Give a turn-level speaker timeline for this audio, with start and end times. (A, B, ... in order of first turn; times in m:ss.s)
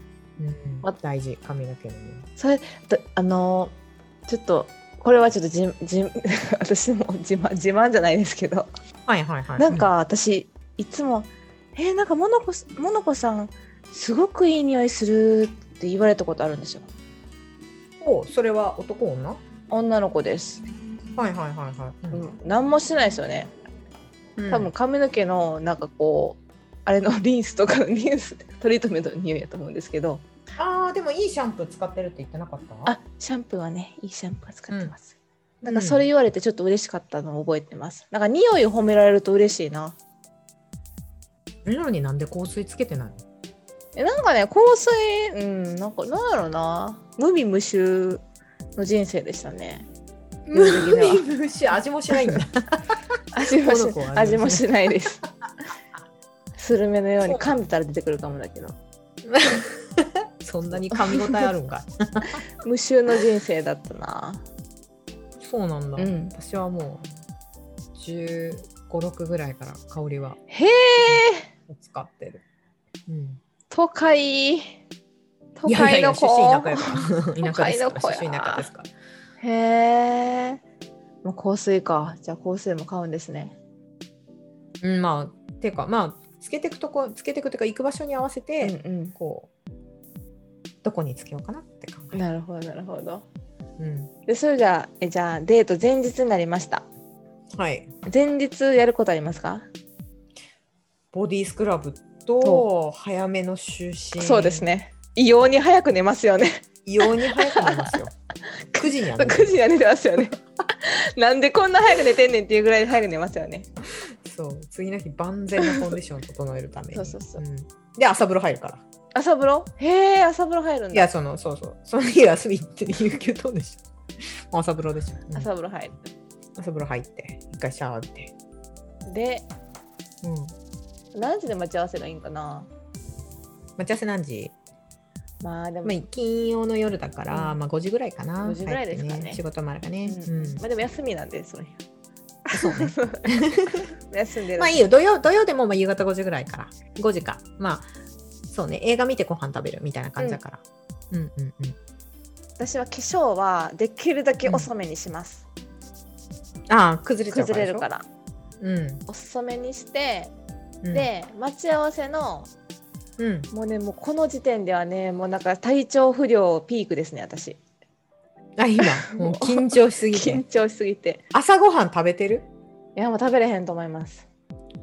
0:00.4-0:02.3 A
0:02.4-0:03.8 B
0:04.3-0:08.7 B
0:09.1-0:09.9 A
0:09.6-0:16.9 B
0:18.0-0:19.4 A
0:19.7-0:20.7 B
0:21.2-0:22.2 A
0:22.1-0:23.5 B
0:24.4-0:24.7 A
0:24.5-0:30.2 B
0:30.6-0:33.0 A
0:32.8-0:40.0 B
0:35.6-0:36.1 A
0:41.6-0:43.2 A
0:44.0-0:48.2 B
0:48.8-0:49.9 B
0:50.5-0:52.8 A
0:50.5-0:51.3 B
0:52.1-0:52.4 B
0:53.3-0:55.2 B
0:53.5-0:54.7 A
0:56.6-0:58.8 B
0:57.2-0:57.6 A
0:59.2-1:02.4 A
1:00.9-1:01.4 B
1:02.6-1:04.4 B
1:05.4-1:07.1 A
1:06.0-1:06.4 B
1:08.0-1:10.4 A
1:10.5-1:11.5 B
1:11.0-1:12.4 A
1:13.1-1:13.4 A
1:13.7-1:14.8 B
1:15.6-1:18.7 B
1:15.7-1:18.9 A
1:19.4-1:20.6 B
1:21.2-1:23.6 B
1:24.8-1:29.5 A
1:28.6-1:29.2 B
1:30.8-1:32.2 A
1:32.1-1:33.2 B
1:33.8-1:34.1 A
1:34.3-1:36.9 B
1:37.5-1:37.9 A
1:38.1-1:39.7 B
1:41.1-1:44.7 A
1:44.2-1:48.0 B
1:46.8-1:48.1 A
1:48.5-1:53.7 B
1:48.8-1:49.6 A
1:53.9-1:58.8 A
1:55.6-1:55.9 B
1:56.9-1:57.4 B
1:59.1-2:01.1 B
2:00.9-2:05.5 A
2:05.3-2:06.0 B
2:06.6-2:08.3 A
2:09.1-2:09.5 B
2:10.2-2:10.5 A
2:11.1-2:12.7 B
2:13.8-2:14.5 A
2:15.4-2:16.0 B
2:15.8-2:20.6 A
2:17.3-2:17.6 B
2:18.4-2:19.4 B
2:20.0-2:21.8 B
2:22.5-2:23.9 A
2:22.5-2:24.8 B
2:24.6-2:27.9 A
2:28.5-2:31.8 A
2:32.6-2:35.5 B
2:34.4-2:34.7 A
2:36.7-2:37.9 A
2:37.3-2:38.0 B
2:38.6-2:39.0 A
2:39.1-2:40.3 B
2:40.8-2:41.1 A
2:40.9-2:42.5 B
2:43.2-2:43.5 A
2:43.5-2:47.6 B
2:48.6-2:50.4 A
2:48.8-2:51.2 B
2:51.3-2:52.5 A
2:53.0-2:54.3 B